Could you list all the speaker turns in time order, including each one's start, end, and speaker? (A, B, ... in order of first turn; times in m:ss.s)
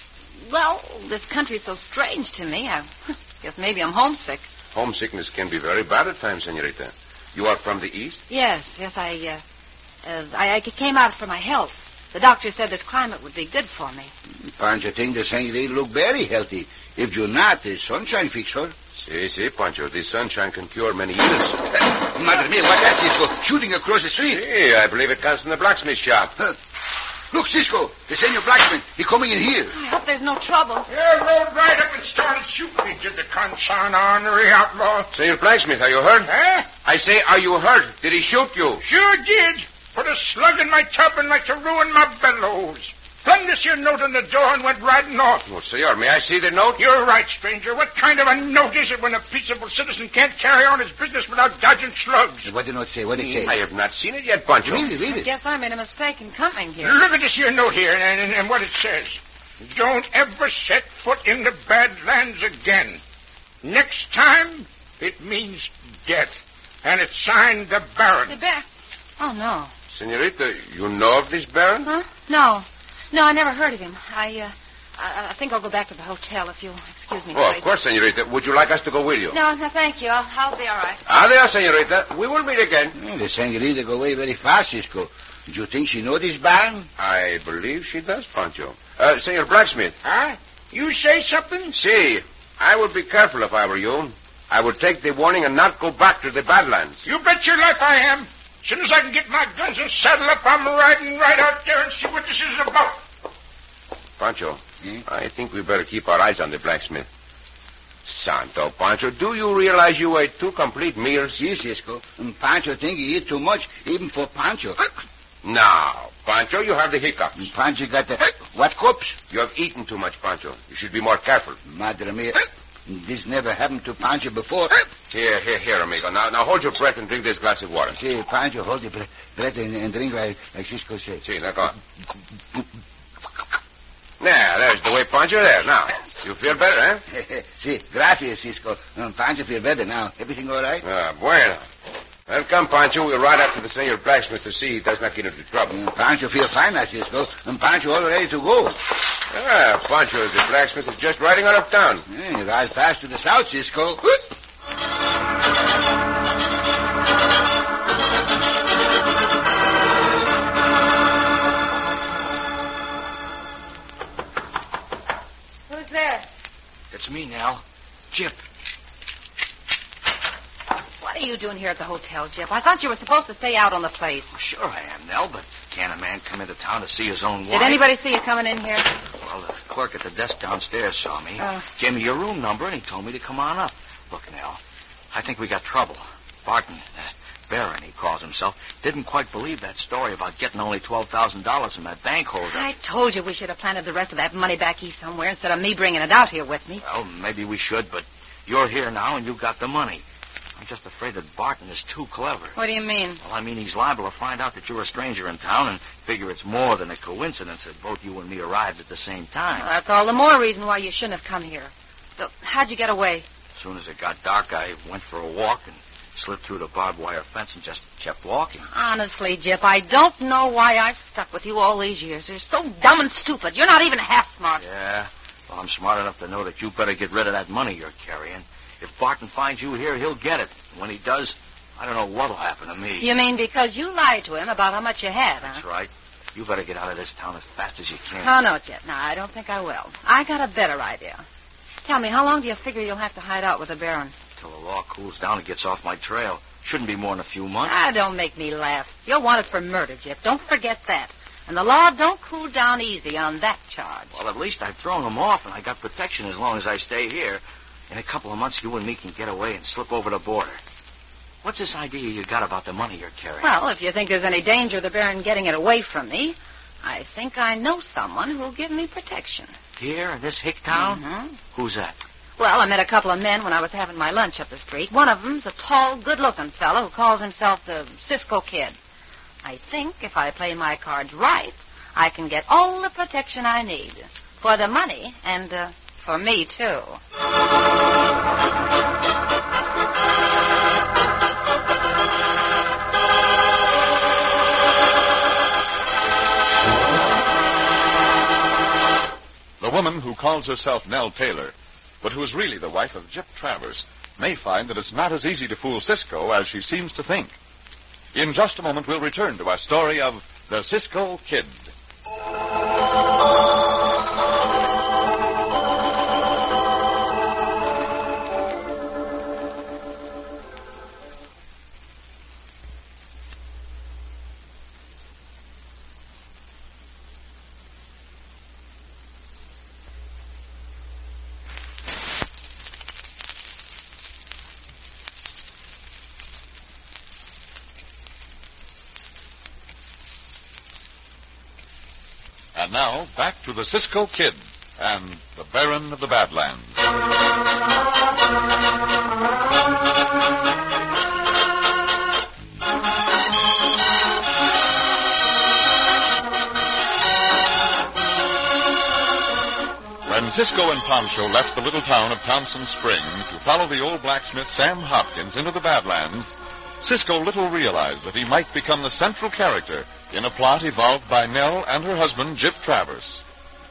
0:00.4-0:04.4 A
0:04.7-0:08.2 B
0:08.3-0:09.4 A
0:10.0-0:14.1 A
0:14.3-0:18.7 C
0:19.0-0:21.7 B
0:21.8-0:24.4 C
0:24.2-0:26.3 B
0:27.3-0:29.7 C
0:29.7-0:30.9 A
0:30.9-0:35.1 D
0:35.1-0:38.8 B
0:36.2-0:36.7 D
0:38.8-0:45.4 D
0:45.4-0:46.8 B
0:46.8-0:52.5 D
0:52.4-0:53.6 C
0:53.2-0:54.9 B
0:54.6-0:55.3 C
0:55.0-0:57.0 A
0:56.8-1:03.0 D
1:03.6-1:08.4 D
1:08.3-1:08.7 A
1:09.2-1:09.7 A
1:09.9-1:11.9 B
1:11.8-1:17.6 A
1:17.3-1:19.4 B
1:19.3-1:21.0 A
1:21.1-1:23.0 B
1:23.0-1:26.9 C
1:27.0-1:30.0 B
1:30.0-1:31.8 D
1:31.8-1:37.0 B
1:37.0-1:43.0 D
1:44.2-1:47.1 B
1:48.1-1:51.4 B
1:51.4-1:54.9 C
1:55.4-1:57.4 B
1:57.4-1:59.2 C
1:59.3-2:01.6 B
2:01.6-2:04.9 C
2:05.1-2:08.0 B
2:08.0-2:11.2 C
2:11.2-2:11.8 B
2:14.2-2:17.0 B
2:17.1-2:20.8 C
2:20.8-2:21.6 B
2:22.3-2:25.8 B
2:25.7-2:28.8 C
2:29.3-2:32.0 B
2:32.1-2:34.2 C
2:45.7-2:46.2 A
2:46.9-2:48.4 E
2:51.0-2:54.3 A
2:54.3-2:57.9 E
2:57.5-2:58.9 A
2:59.2-3:04.6 E
3:01.4-3:01.6 A
3:05.1-3:12.7 E
3:12.5-3:16.8 A
3:16.8-3:20.0 E
3:20.6-3:22.6 E
3:22.6-3:23.2 A
3:23.2-3:29.6 E
3:29.6-3:33.2 A
3:33.6-3:38.7 E
3:38.7-3:44.6 A
3:44.6-3:53.1 E
3:53.0-3:55.6 A
3:55.4-3:58.4 E
3:58.2-4:01.2 A
4:01.8-4:04.1 A
4:04.4-4:07.8 E
4:07.6-4:14.1 A
4:14.1-4:20.6 E
4:21.4-4:23.5 E
4:23.4-4:29.5 A
4:29.8-4:32.0 E
4:30.7-4:31.4 A
4:32.4-4:38.8 A
4:39.4-4:47.0 A
4:59.6-5:07.3 F
5:08.1-5:11.7 F
5:42.6-5:46.8 F
6:00.1-6:06.3 F
6:06.8-6:13.2 F